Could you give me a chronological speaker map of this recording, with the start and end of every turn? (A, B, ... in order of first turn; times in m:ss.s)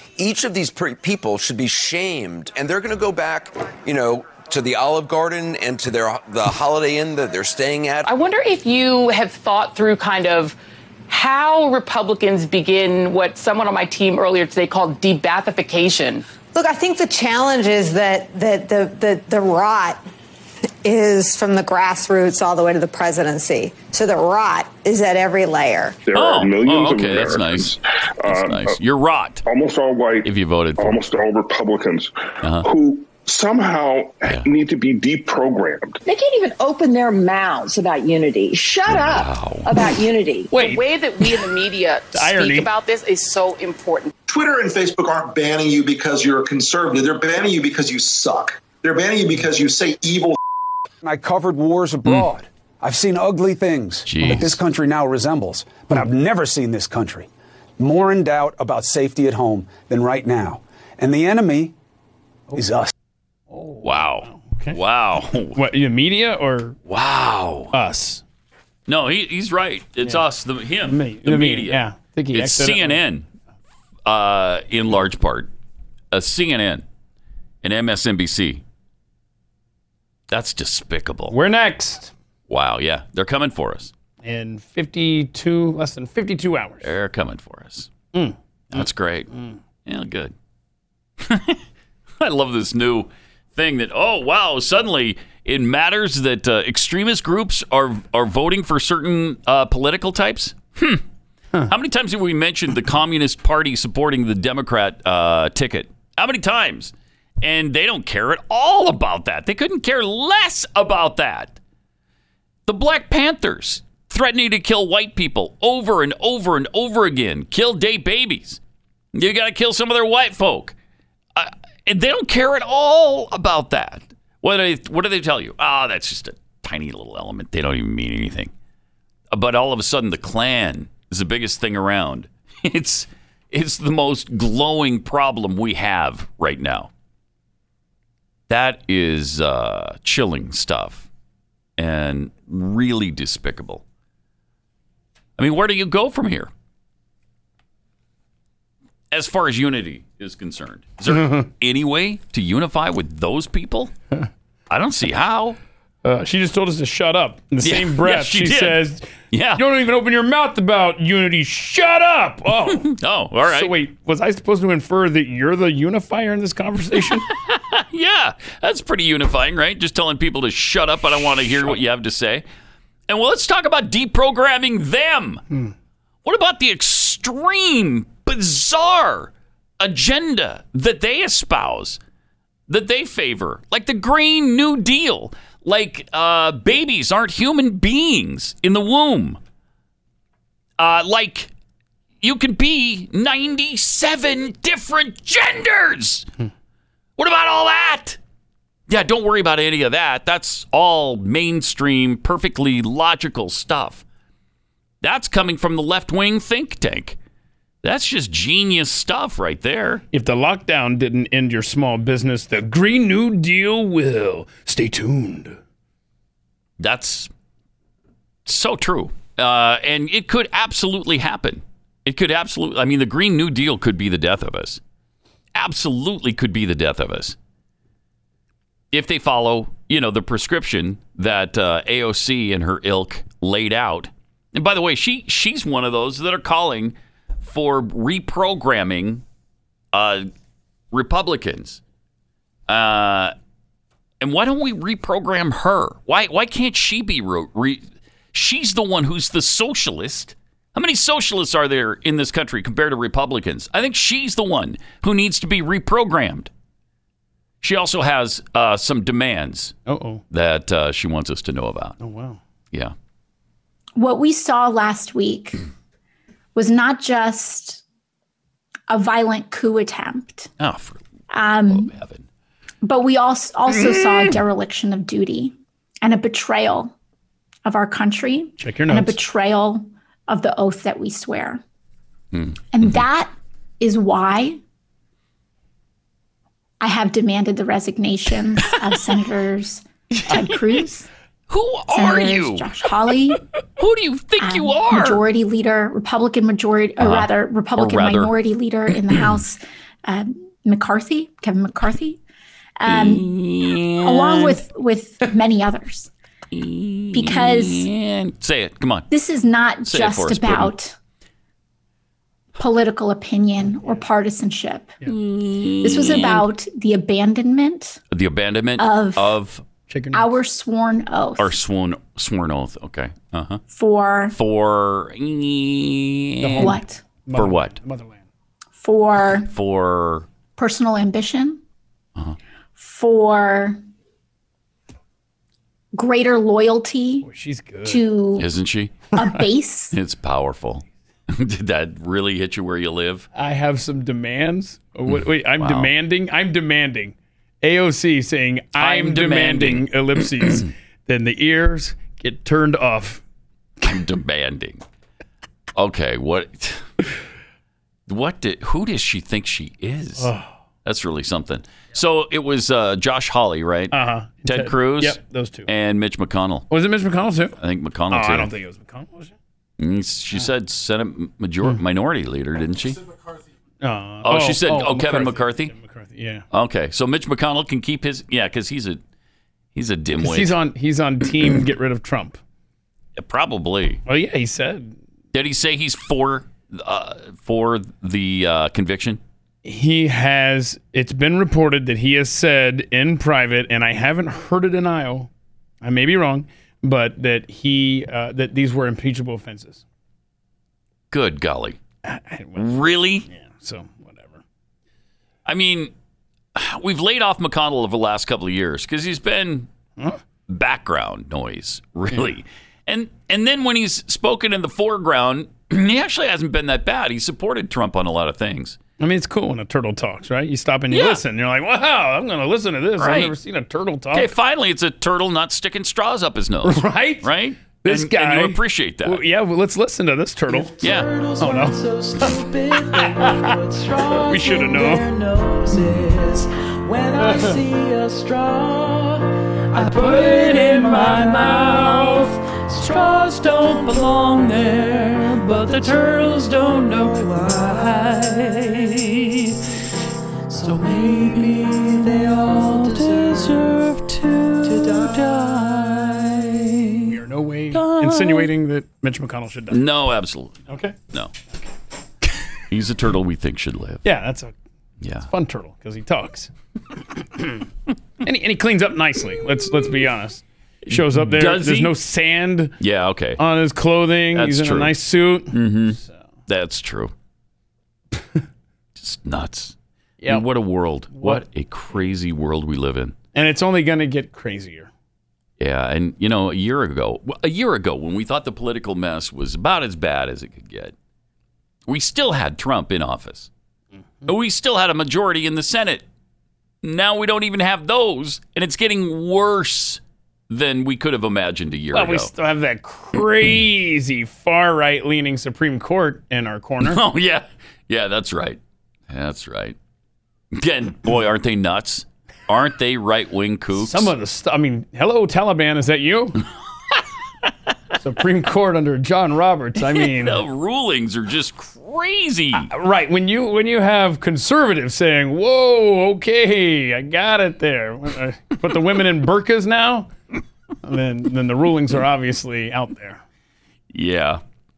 0:00.2-0:08.1 A
0:08.0-0:10.6 B
0:11.1-0:16.3 B
0:16.5-0:20.0 C
0:20.8-0:26.0 C
0:26.1-0:28.8 D
0:26.1-0:29.4 E
0:29.4-0:36.0 D
0:30.2-0:31.0 E
0:32.4-0:32.7 E
0:36.0-0:40.5 F
0:38.9-0:39.7 E
0:40.5-0:40.8 G
0:40.6-0:44.1 B
0:42.1-0:42.7 G
0:44.3-0:50.3 H
0:51.0-1:01.7 I
0:52.0-0:52.3 E
0:54.0-0:54.6 E
1:02.5-1:02.9 I
1:03.5-1:04.8 G
1:03.8-1:05.6 E
1:05.4-1:06.8 G
1:06.9-1:07.7 E
1:07.7-1:08.2 G
1:08.9-1:11.8 E
1:10.9-1:13.0 G
1:12.3-1:13.3 E
1:14.0-1:15.5 E
1:16.1-1:16.8 E
1:17.6-1:18.6 E
1:20.3-1:21.4 E
1:21.3-1:22.1 G
1:22.5-1:23.9 E
1:24.2-1:26.9 G
1:26.8-1:27.9 E
1:28.1-1:29.6 G
1:28.7-1:29.3 E
1:29.8-1:30.3 E
1:31.2-1:31.6 E
1:32.2-1:41.0 E
1:41.7-1:51.6 E
1:52.6-1:58.6 E
1:59.1-2:00.7 E
2:01.3-2:08.5 E
2:09.3-2:16.9 E
2:18.5-2:21.1 E
2:21.8-2:23.8 E
2:25.4-2:26.5 E
2:29.1-2:33.9 E
2:31.1-2:31.4 G
2:34.7-2:35.6 E
2:36.0-2:42.9 G
2:37.6-2:39.6 E
2:42.7-2:43.7 E
2:43.4-2:47.2 G
2:47.1-2:52.4 E
2:53.1-2:55.4 E
2:56.2-3:02.0 E
3:02.7-3:09.4 E
3:10.8-3:11.5 E
3:12.2-3:16.3 E
3:17.2-3:18.2 E
3:18.9-3:24.0 E
3:25.0-3:27.2 E
3:27.8-3:30.0 E
3:30.1-3:35.6 G
3:36.8-3:37.3 E
3:38.4-3:44.8 E
3:45.5-3:47.4 E
3:48.9-3:59.2 E
3:59.9-4:00.3 E
4:00.9-4:01.8 E
4:02.7-4:03.3 E
4:04.2-4:16.5 E
4:17.6-4:19.7 E
4:19.9-4:20.2 G
4:20.3-4:22.0 E
4:22.0-4:22.4 G
4:24.0-4:25.6 J
4:26.5-4:27.8 J
4:28.9-4:30.5 J
4:30.6-4:31.0 E
4:31.3-4:31.9 J
4:31.7-4:32.2 E
4:32.8-4:36.9 J
4:33.7-4:34.4 E
4:37.6-4:41.6 J
4:38.6-4:39.2 G
4:42.3-4:43.0 E
4:42.7-4:44.6 J
4:46.8-4:51.1 J
4:48.6-4:49.2 E
4:50.3-4:50.7 E
4:51.5-4:52.8 E
4:51.9-4:53.4 J
4:53.8-4:55.2 E
4:54.4-5:02.2 J
4:57.0-4:58.3 E
4:58.9-4:59.4 E
5:02.8-5:03.3 J
5:02.8-5:04.6 E
5:04.0-5:06.1 J
5:06.5-5:09.1 E
5:07.1-5:07.9 J
5:09.1-5:11.0 J
5:09.8-5:10.7 E
5:12.6-5:15.0 J
5:15.0-5:16.5 E
5:15.8-5:18.0 J
5:18.1-5:19.6 E
5:18.8-5:19.3 J
5:19.9-5:20.3 G
5:20.1-5:21.6 J
5:21.4-5:23.6 E
5:23.7-5:24.4 J
5:24.3-5:26.8 E
5:26.4-5:28.2 G
5:26.6-5:27.0 J
5:27.3-5:27.8 E
5:28.8-5:29.5 J
5:29.5-5:30.3 E
5:30.6-5:31.6 J
5:32.8-5:33.8 J
5:35.9-5:37.3 J
5:37.2-5:38.0 G
5:37.9-5:38.5 J
5:38.4-5:39.1 E
5:39.1-5:40.0 J
5:39.9-5:43.3 E
5:43.3-5:53.2 G
5:45.1-5:45.9 E
5:48.8-5:49.9 E
5:53.8-5:54.8 E
5:55.7-5:57.0 E
5:58.1-6:00.3 E
6:00.2-6:00.5 G
6:00.8-6:03.9 E
6:03.9-6:05.7 G
6:04.4-6:06.7 E
6:06.7-6:07.6 G
6:07.6-6:08.5 E
6:08.1-6:09.3 G
6:09.8-6:13.0 E
6:13.8-6:16.4 G
6:14.2-6:15.7 E
6:16.5-6:19.0 E
6:19.7-6:20.6 E
6:20.2-6:22.4 G
6:23.2-6:24.0 E
6:24.1-6:25.0 G
6:25.3-6:29.2 E
6:29.6-6:35.3 G
6:35.8-6:39.8 G
6:41.1-6:41.8 E
6:42.0-6:44.4 G
6:42.6-6:43.2 E
6:45.4-6:45.9 E
6:46.5-6:49.7 E
6:50.5-6:58.8 E
6:59.0-7:04.3 G
7:00.9-7:01.2 E
7:03.0-7:03.3 E
7:04.1-7:09.2 E
7:06.6-7:07.3 G
7:07.8-7:10.7 G
7:10.5-7:28.7 K
7:10.8-7:11.1 E
7:11.4-7:12.3 G
7:12.9-7:13.5 G
7:14.2-7:15.1 G
7:17.2-7:17.5 G
7:21.6-7:22.3 E
7:23.5-7:27.1 E
7:28.0-7:29.5 E
7:30.5-7:34.0 K
7:33.0-7:37.1 E
7:34.6-7:36.3 K
7:37.0-7:39.8 G
7:37.7-7:38.5 E
7:39.7-7:41.3 E
7:40.7-7:41.0 G
7:42.7-7:44.0 E
7:44.0-7:44.5 G
7:45.0-7:45.3 E
7:45.3-7:46.5 G
7:48.2-7:52.7 G
7:50.9-7:51.9 E
7:52.8-7:53.4 E
7:53.4-7:56.1 G
7:54.3-7:54.9 E
7:55.5-7:57.1 E
7:59.0-7:59.7 E
8:00.3-8:03.1 E
8:01.1-8:01.4 G
8:03.3-8:04.9 G
8:05.6-8:10.9 E
8:11.8-8:13.5 E
8:14.3-8:16.0 E
8:16.8-8:22.3 E
8:21.9-8:27.0 G
8:26.8-8:28.6 E
8:29.1-8:29.8 E
8:30.5-8:34.1 E
8:33.7-8:36.4 G
8:38.0-8:40.4 G
8:39.8-8:42.7 E
8:42.6-8:50.1 G
8:50.8-8:53.2 G
8:53.9-8:54.4 E